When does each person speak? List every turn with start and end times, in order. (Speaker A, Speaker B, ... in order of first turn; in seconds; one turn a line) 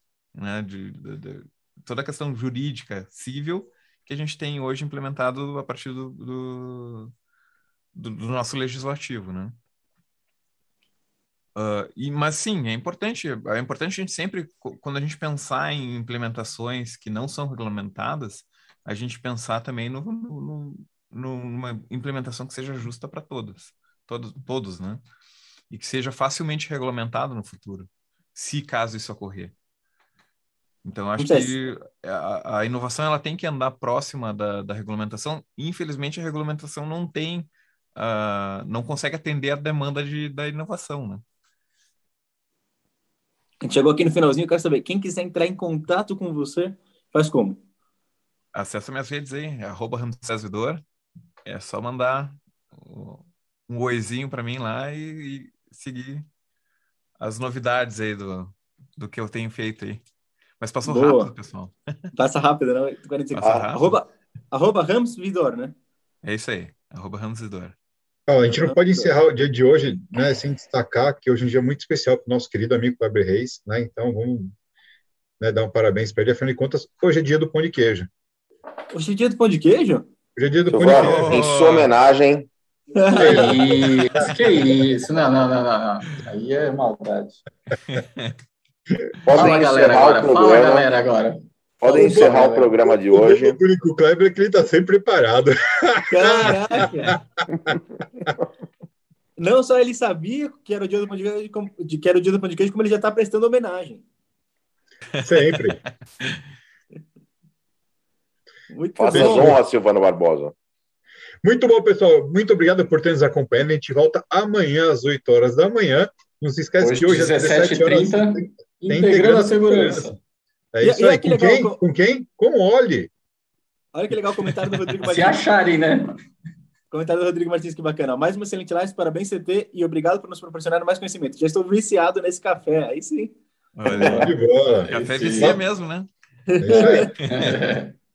Speaker A: 0.3-7.1
Speaker A: 7.9-9.6
Speaker A: 11.6-25.0
Speaker A: 25.7-29.5
Speaker A: 30.8-41.2
Speaker B: 31.2-31.5
Speaker B: 43.6-47.6
Speaker A: 48.5-50.8
Speaker A: 51.5-56.3
Speaker A: 57.2-60.0
Speaker A: 60.6-62.1
Speaker B: 60.9-61.3
Speaker B: 62.1-65.7
Speaker A: 63.3-64.0
Speaker A: 66.2-67.8
Speaker C: 68.3-74.5
Speaker B: 68.5-69.2
Speaker C: 75.4-78.1
Speaker B: 78.9-80.1
Speaker C: 80.4-81.4
Speaker D: 80.7-82.5
Speaker A: 80.8-81.9
Speaker B: 83.0-83.6
Speaker C: 83.1-84.7
Speaker E: 83.2-87.4
Speaker A: 87.9-88.4
Speaker D: 89.2-90.9
Speaker E: 89.3-91.4
Speaker D: 91.8-93.6
Speaker C: 91.9-98.3
Speaker B: 91.9-92.5
Speaker B: 96.1-97.2
Speaker B: 99.4-104.0
Speaker A: 105.1-106.4
Speaker C: 105.2-105.8
Speaker B: 108.7-109.6
Speaker D: 109.0-110.5
Speaker C: 109.1-109.6
Speaker C: 111.4-120.2
Speaker E: 116.8-120.2
Speaker C: 120.7-123.1
Speaker B: 120.8-121.8
Speaker B: 123.9-125.4
Speaker E: 125.1-126.2
Speaker B: 126.9-133.4
Speaker A: 133.8-134.4
Speaker C: 133.9-135.6
Speaker E: 133.9-135.6
Speaker A: 134.9-136.1
Speaker B: 136.5-137.1
Speaker C: 136.6-137.2
Speaker E: 136.8-137.9
Speaker A: 137.2-137.6